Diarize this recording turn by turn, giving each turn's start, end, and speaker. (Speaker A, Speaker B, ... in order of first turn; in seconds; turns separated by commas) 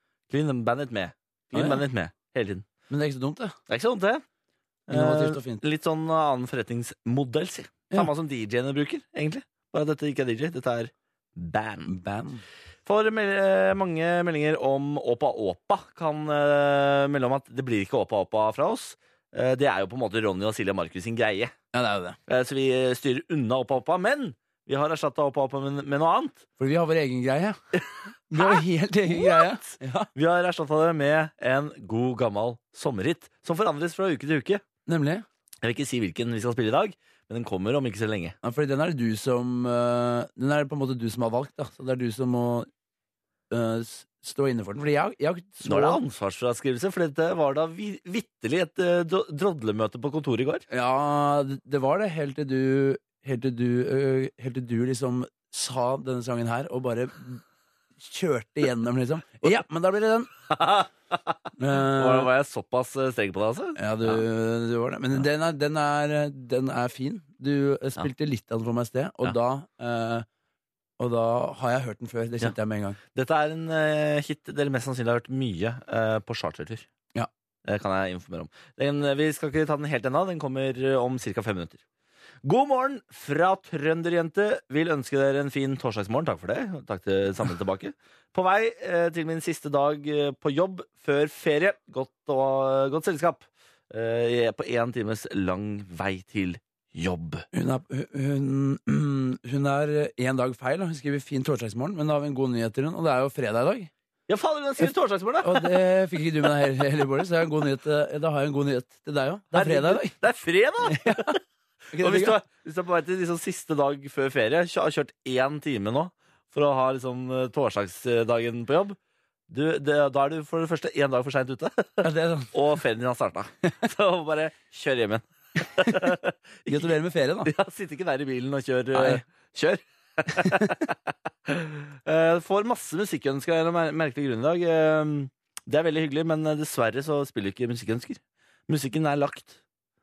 Speaker A: 0.3-2.7, Speaker B: 1.5-1.8, Speaker B: 2.9-3.6, Speaker A: 3.7-4.2, Speaker A: 4.9-11.9, Speaker B: 4.9-5.6, Speaker B: 11.9-12.4, Speaker A: 12.9-21.5, Speaker B: 21.7-22.2, Speaker A: 22.3-26.4, Speaker B: 26.6-27.6, Speaker B: 28.3-30.1, Speaker A: 28.4-34.6, Speaker B: 34.9-35.2, Speaker A: 35.6-38.4, Speaker B: 38.4-42.7, Speaker B: 43.5-46.0, Speaker A: 45.6-50.6, Speaker B: 50.7-57.4, Speaker B: 58.0-60.3, Speaker A: 60.5-64.2, Speaker B: 61.6-62.3, Speaker B: 63.8-70.3, Speaker B: 71.0-73.0, Speaker A: 73.1-76.9, Speaker A: 77.7-81.8, Speaker A: 82.4-97.5, Speaker B: 97.5-103.9, Speaker A: 104.3-105.8, Speaker B: 105.4-110.1, Speaker A: 109.5-111.4, Speaker B: 110.9-111.4, Speaker B: 111.9-112.4, Speaker A: 112.0-119.0, Speaker A: 119.5-126.9, Speaker B: 122.0-122.5, Speaker B: 125.8-126.1, Speaker B: 126.7-127.5, Speaker A: 127.5-130.9, Speaker B: 128.9-129.2, Speaker B: 130.4-130.7, Speaker A: 131.5-139.6